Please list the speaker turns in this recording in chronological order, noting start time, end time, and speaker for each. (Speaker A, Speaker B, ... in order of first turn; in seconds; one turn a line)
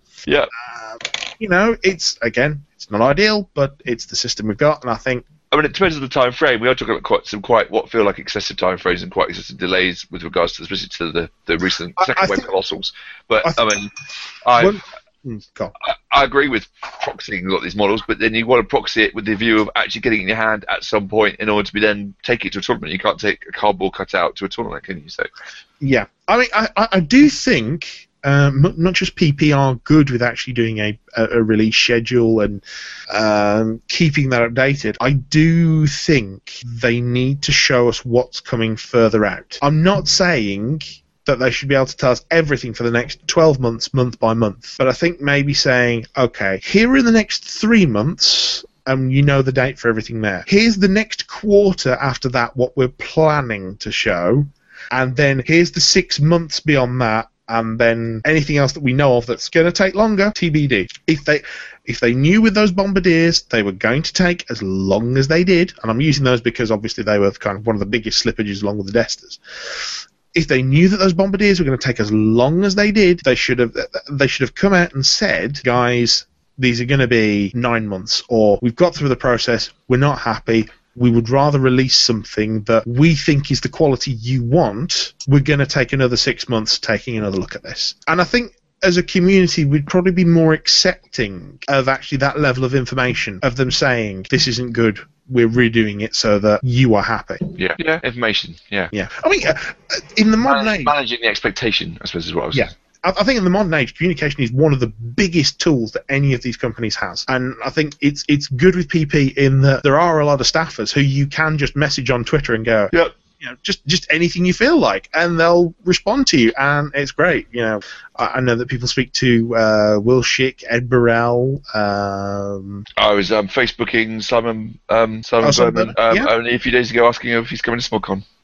Speaker A: 0.6-5.2
Speaker B: 5.5-13.9
Speaker A: 12.0-12.5
Speaker B: 14.4-14.8
Speaker A: 14.6-15.7
Speaker B: 15.8-25.3
Speaker A: 25.8-69.4
Speaker A: 70.3-97.5
Speaker B: 97.6-98.9
Speaker A: 98.9-100.9
Speaker B: 100.4-102.7
Speaker A: 102.5-122.8
Speaker B: 123.0-128.2
Speaker A: 125.4-126.3